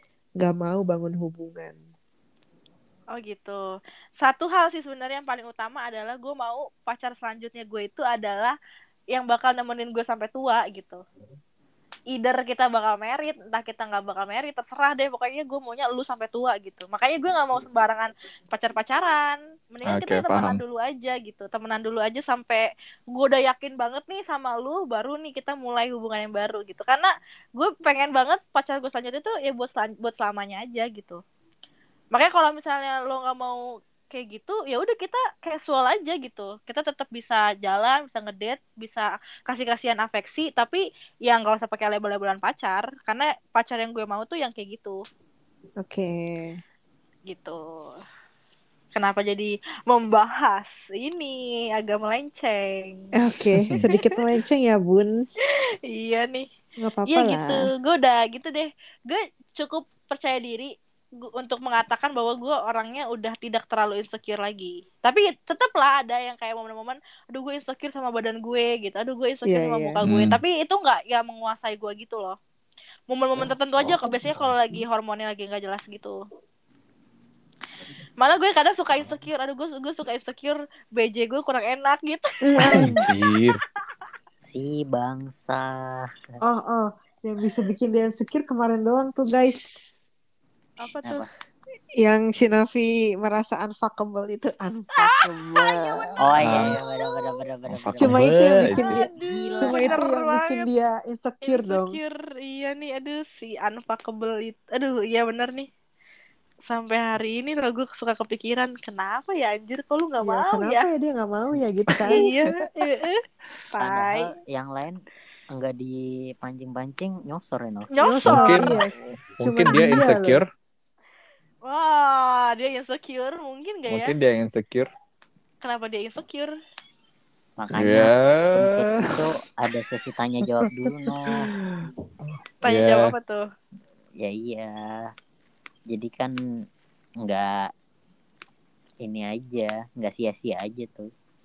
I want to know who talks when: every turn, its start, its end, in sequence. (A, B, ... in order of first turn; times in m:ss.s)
0:00.4-0:01.8 A
0:03.1-0:03.6 B
0:04.2-0:08.6 B
0:09.1-0:11.0 B
0:12.1-0:31.2 B
0:19.8-0:20.6 C
0:32.1-0:45.0 B
0:45.8-0:46.6 A
0:47.3-0:48.0 B
0:48.9-0:53.1 B
0:53.2-0:55.3 A
0:53.8-0:54.2 B
0:55.4-0:56.5 B
0:56.8-0:57.7 A
0:57.1-1:12.4 B
1:09.4-1:10.0 A
1:10.0-1:10.4 C
1:13.1-1:16.2 B
1:18.2-1:23.0 B
1:22.4-1:23.0 A
1:22.6-1:23.6 C
1:24.4-1:26.3 D
1:26.4-1:29.9 A
1:30.8-1:31.3 B
1:32.0-1:36.4 A
1:35.0-1:37.2 B
1:36.2-1:40.1 D
1:36.4-1:36.8 C
1:37.7-1:39.0 C
1:38.0-1:42.0 A
1:38.7-1:40.7 B
1:41.4-1:45.7 B
1:46.6-1:50.8 B
1:50.2-1:52.3 A
1:52.0-1:52.3 C
1:52.1-1:53.2 B
1:53.7-1:54.3 B
1:53.8-1:58.0 D
1:57.9-1:58.8 B
1:58.0-2:00.4 A
1:58.2-1:58.8 C
1:59.4-2:00.5 C
2:01.6-2:04.1 B
2:03.9-2:04.9 C
2:05.6-2:06.5 B
2:07.6-2:11.5 D
2:07.7-2:09.2 C
2:12.6-2:13.4 B
2:12.6-2:13.1 C
2:14.2-2:15.1 D
2:15.9-2:16.4 D
2:17.2-2:17.7 D
2:19.0-2:21.1 D